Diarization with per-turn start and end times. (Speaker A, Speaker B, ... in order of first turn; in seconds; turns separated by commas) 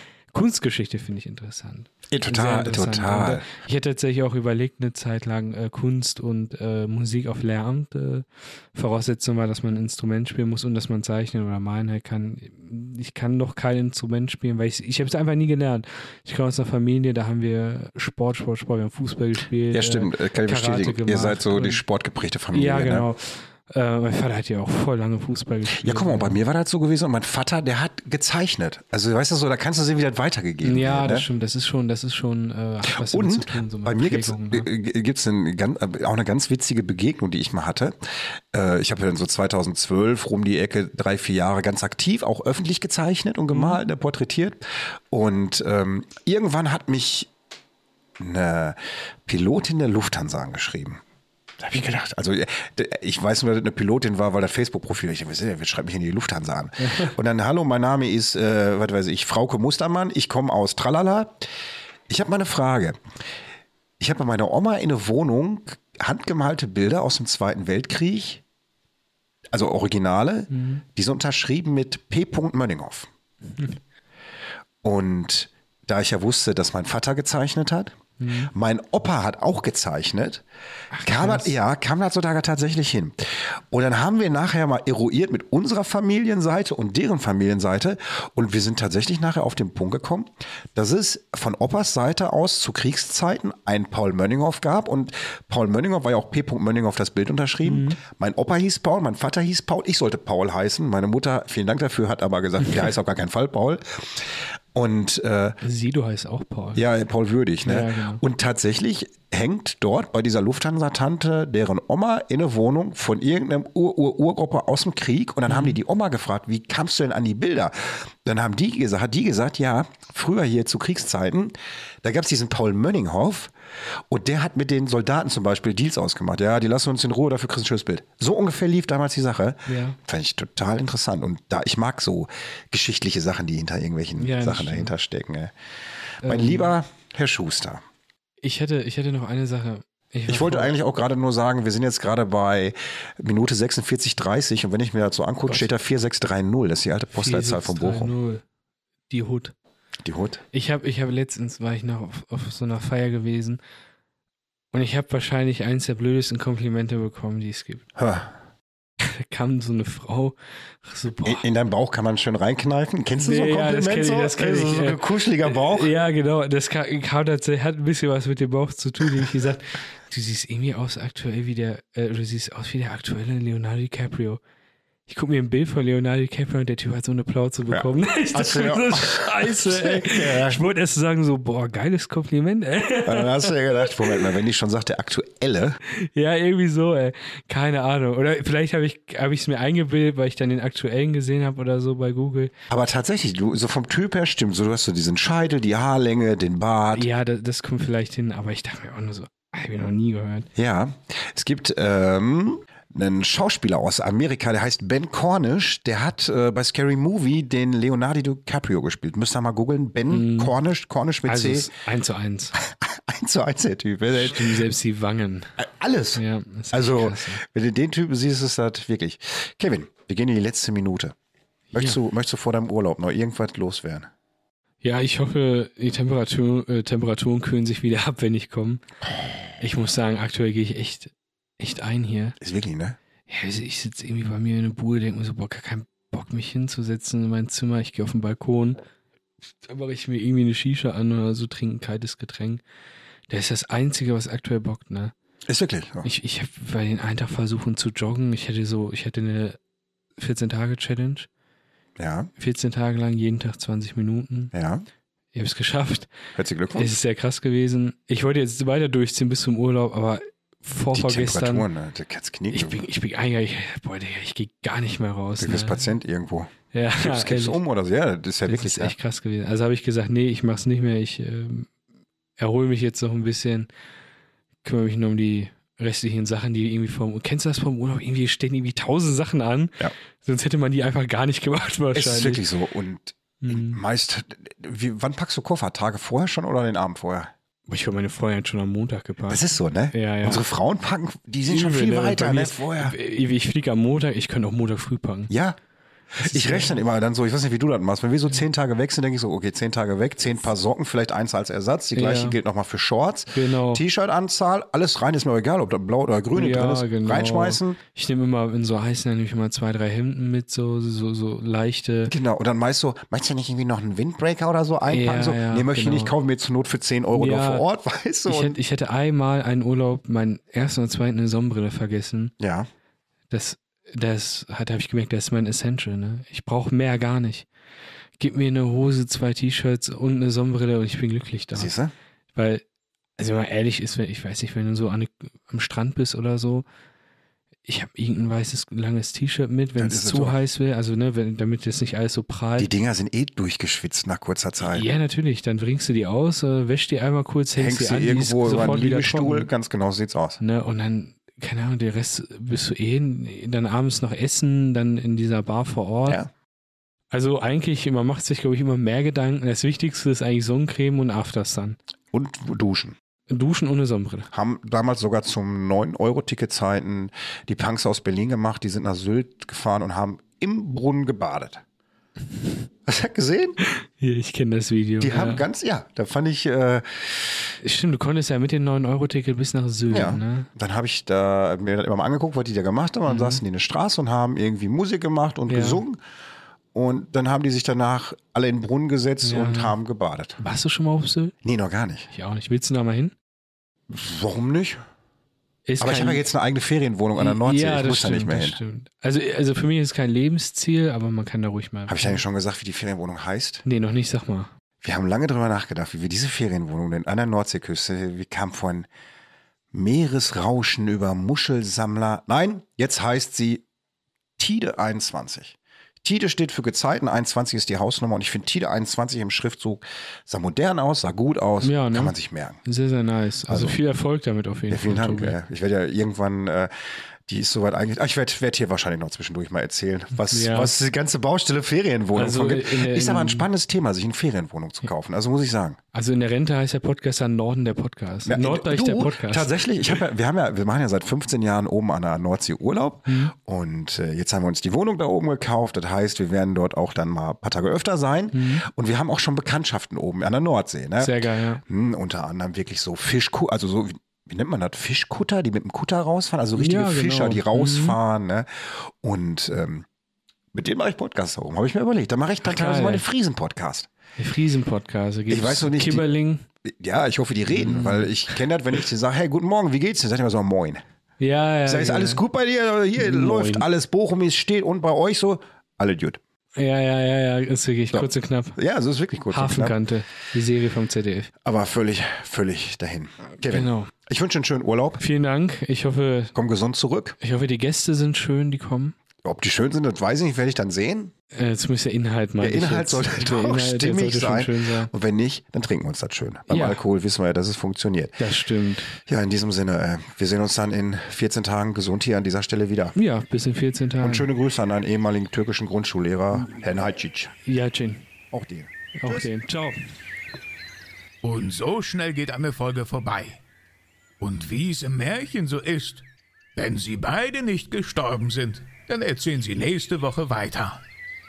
Speaker A: 0.3-21.8, Speaker B: 2.1-3.5, Speaker B: 19.7-23.1, Speaker A: 22.5-26.4, Speaker B: 25.7-31.3, Speaker A: 30.6-34.7, Speaker B: 32.9-47.3, Speaker A: 43.5-43.8, Speaker B: 48.2-51.0, Speaker B: 51.6-61.5, Speaker A: 56.8-57.1, Speaker B: 62.1-63.0, Speaker B: 64.0-68.4, Speaker B: 69.5-73.1, Speaker A: 70.5-70.8, Speaker B: 74.8-77.9, Speaker A: 78.2-78.5, Speaker B: 78.5-80.4, Speaker A: 80.9-81.5, Speaker B: 81.0-105.6, Speaker A: 97.6-98.0, Speaker A: 105.6-106.8, Speaker B: 106.7-123.5, Speaker A: 107.6-108.2, Speaker A: 115.5-115.8, Speaker B: 124.1-135.5, Speaker A: 129.7-130.0, Speaker A: 134.2-134.9, Speaker A: 136.2-136.7, Speaker B: 136.2-137.8, Speaker A: 138.4-140.7, Speaker B: 140.3-148.1, Speaker A: 147.1-148.4, Speaker A: 149.1-149.5, Speaker B: 150.0-150.4, Speaker A: 150.5-153.6, Speaker A: 154.7-157.8, Speaker B: 157.9-158.3, Speaker A: 159.0-161.4, Speaker B: 161.2-165.9, Speaker A: 163.2-174.4, Speaker A: 175.1-184.3, Speaker B: 177.7-180.6, Speaker B: 183.0-185.8, Speaker A: 185.9-192.5, Speaker B: 192.7-197.1, Speaker A: 196.9-200.5, Speaker B: 200.6-211.7, Speaker A: 210.1-210.5, Speaker A: 211.2-212.5, Speaker B: 212.6-214.6, Speaker A: 214.1-215.5, Speaker B: 215.6-216.2, Speaker A: 216.2-217.4, Speaker B: 216.7-221.1, Speaker A: 221.7-222.0, Speaker B: 221.7-224.1, Speaker A: 224.8-228.8, Speaker A: 229.6-232.3, Speaker B: 232.4-233.0, Speaker A: 233.3-238.8, Speaker A: 239.7-242.6, Speaker A: 243.3-245.1, Speaker B: 245.5-246.1, Speaker A: 246.0-249.6, Speaker A: 250.2-251.3, Speaker B: 252.0-252.3, Speaker A: 252.4-254.5, Speaker B: 254.5-254.9, Speaker A: 255.3-256.1, Speaker B: 256.4-256.9, Speaker A: 256.7-261.7, Speaker B: 260.9-262.8, Speaker A: 262.5-265.8, Speaker B: 265.4-268.9, Speaker A: 266.7-267.6, Speaker A: 268.4-271.7, Speaker A: 272.4-273.7, Speaker A: 274.6-282.4, Speaker B: 281.9-287.3, Speaker A: 283.4-283.8, Speaker A: 287.7-290.4, Speaker B: 289.3-292.9, Speaker A: 291.4-295.3, Speaker B: 295.3-295.6, Speaker B: 296.1-307.8, Speaker A: 296.2-296.8, Speaker A: 301.9-302.4, Speaker A: 303.3-303.8, Speaker A: 306.3-312.1, Speaker B: 312.1-318.6, Speaker A: 314.8-316.1, Speaker A: 317.1-317.6, Speaker A: 318.3-322.3, Speaker B: 322.4-322.7, Speaker A: 323.3-327.5, Speaker A: 328.2-331.7, Speaker B: 331.5-331.9, Speaker A: 332.3-332.6, Speaker A: 333.2-336.6, Speaker A: 337.6-342.7, Speaker B: 339.8-340.4, Speaker B: 342.6-344.9, Speaker A: 344.7-349.5, Speaker B: 347.6-350.4, Speaker A: 350.4-356.2, Speaker A: 357.1-361.8, Speaker B: 362.1-362.9, Speaker A: 363.3-364.3, Speaker B: 364.3-371.6, Speaker B: 372.8-373.6, Speaker A: 373.6-375.4, Speaker B: 375.0-377.3, Speaker A: 377.6-380.5, Speaker B: 379.9-386.0, Speaker A: 383.1-383.4, Speaker A: 385.5-385.8, Speaker B: 386.7-390.4, Speaker A: 389.2-389.7, Speaker A: 390.4-391.3, Speaker B: 391.4-392.1, Speaker A: 392.1-393.1, Speaker B: 393.9-394.8, Speaker A: 395.7-396.2, Speaker B: 395.8-398.6, Speaker A: 397.1-402.2, Speaker B: 401.9-403.6, Speaker A: 403.6-404.5, Speaker B: 404.8-408.9, Speaker B: 409.7-413.6, Speaker B: 414.4-422.6, Speaker A: 421.6-425.4, Speaker B: 423.5-423.8, Speaker B: 424.7-426.7, Speaker B: 427.2-435.8, Speaker A: 430.2-430.7, Speaker A: 432.1-433.5, Speaker A: 435.9-439.5, Speaker B: 438.2-459.9, Speaker A: 443.1-443.3, Speaker A: 448.3-448.6, Speaker A: 451.0-451.6, Speaker A: 456.6-458.0, Speaker B: 460.5-463.9, Speaker A: 462.4-463.0, Speaker A: 464.2-466.4, Speaker B: 465.3-466.0, Speaker B: 466.6-470.8, Speaker A: 467.5-468.1, Speaker A: 471.2-472.2, Speaker B: 471.6-476.2, Speaker A: 472.9-473.6, Speaker A: 476.6-478.6, Speaker B: 477.9-479.7, Speaker A: 479.3-481.3, Speaker B: 481.4-485.0, Speaker A: 483.4-483.9, Speaker A: 485.0-486.3, Speaker B: 486.3-487.1, Speaker A: 487.2-488.9, Speaker B: 489.2-491.1, Speaker A: 491.3-494.9, Speaker B: 492.4-498.2, Speaker A: 496.5-496.8, Speaker A: 498.2-498.9, Speaker B: 499.0-502.9, Speaker A: 502.9-504.3, Speaker B: 504.0-507.3, Speaker A: 507.4-508.1, Speaker B: 508.3-509.3, Speaker A: 508.9-509.8, Speaker C: 511.2-513.4, Speaker C: 514.2-520.8